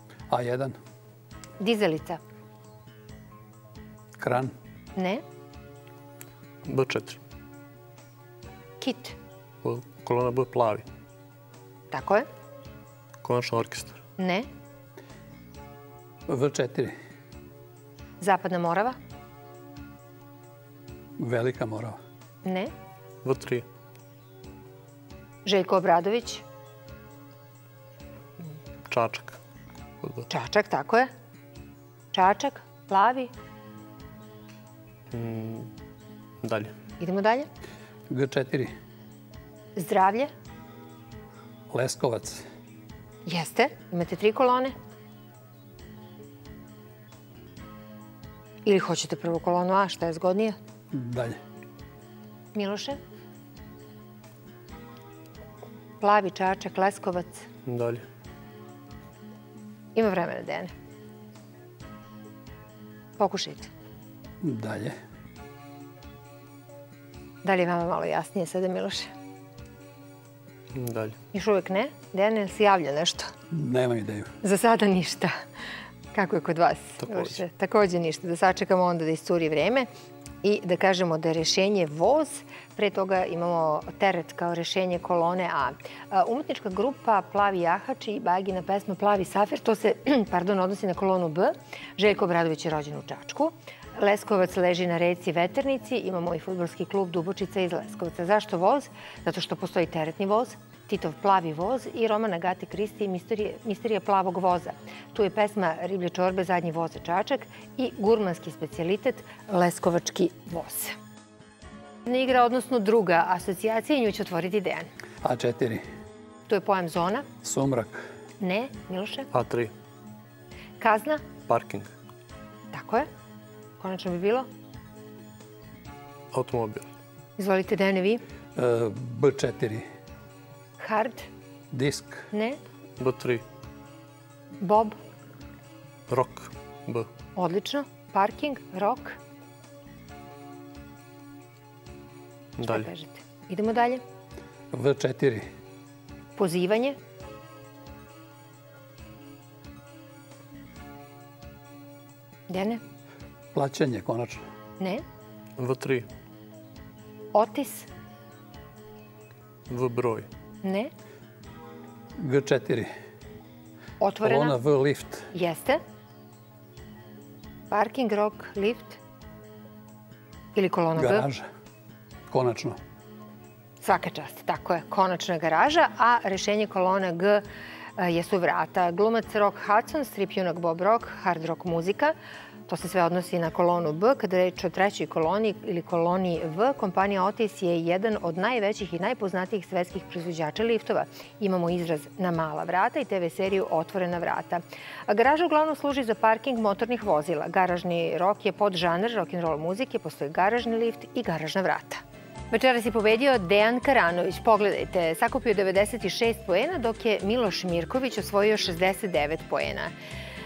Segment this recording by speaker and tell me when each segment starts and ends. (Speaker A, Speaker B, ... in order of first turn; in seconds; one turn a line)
Speaker A: 0.3-0.8
Speaker B: 1.6-2.2
Speaker A: 4.2-4.5
Speaker B: 5.0-5.2
Speaker C: 6.6-7.2
Speaker B: 8.8-9.2
Speaker C: 9.6-10.8
Speaker B: 11.9-12.3
Speaker C: 13.2-14.0
Speaker B: 14.2-14.5
Speaker A: 16.3-16.9
Speaker B: 18.2-19.0
Speaker A: 21.2-22.0
Speaker B: 22.4-22.7
Speaker C: 23.2-23.6
Speaker B: 25.4-26.4
Speaker C: 28.9-29.4
Speaker C: 30.0-30.3
Speaker B: 30.3-31.1
Speaker B: 32.1-33.3
Speaker C: 35.1-35.7
Speaker C: 36.4-36.7
Speaker B: 37.0-37.5
Speaker A: 38.1-38.8
Speaker B: 39.8-40.3
Speaker A: 41.7-42.5
Speaker B: 43.3-44.8
Speaker B: 48.6-50.6
Speaker A: 50.9-51.4
Speaker B: 52.5-53.0
Speaker B: 56.0-57.5
Speaker C: 57.6-58.0
Speaker B: 59.9-60.7
Speaker B: 63.2-63.7
Speaker A: 64.4-65.0
Speaker B: 67.4-69.1
Speaker C: 70.7-71.2
Speaker B: 71.3-73.3
Speaker A: 73.5-74.3
Speaker B: 74.4-75.4
Speaker B: 76.1-79.9
Speaker B: 80.4-111.0
Speaker B: 112.1-114.9
Speaker A: 115.2-115.8
Speaker B: 116.5-117.3
Speaker A: 117.4-118.1
Speaker B: 118.4-119.3
Speaker C: 119.3-119.7
Speaker B: 120.8-121.2
Speaker C: 121.5-121.9
Speaker B: 122.7-123.1
Speaker B: 123.8-124.5
Speaker C: 126.3-126.9
Speaker B: 127.4-128.2
Speaker A: 128.6-129.9
Speaker B: 130.8-131.3
Speaker A: 131.7-132.3
Speaker B: 132.3-132.6
Speaker C: 133.0-133.4
Speaker B: 134.6-135.0
Speaker C: 136.1-137.1
Speaker B: 137.4-139.2
Speaker C: 142.6-142.9
Speaker B: 142.7-144.0
Speaker A: 144.7-145.5
Speaker B: 146.4-147.0
Speaker B: 152.5-152.8
Speaker A: 153.5-154.4
Speaker C: 155.6-156.1
Speaker B: 157.3-157.9
Speaker C: 159.7-160.3
Speaker B: 160.6-160.9
Speaker A: 162.2-162.9
Speaker B: 164.0-164.6
Speaker A: 164.2-165.3
Speaker B: 165.3-165.8
Speaker B: 167.7-169.0
Speaker B: 170.6-171.3
Speaker A: 170.9-171.4
Speaker A: 172.3-172.8
Speaker B: 173.8-177.4
Speaker B: 178.0-182.1
Speaker B: 182.7-209.9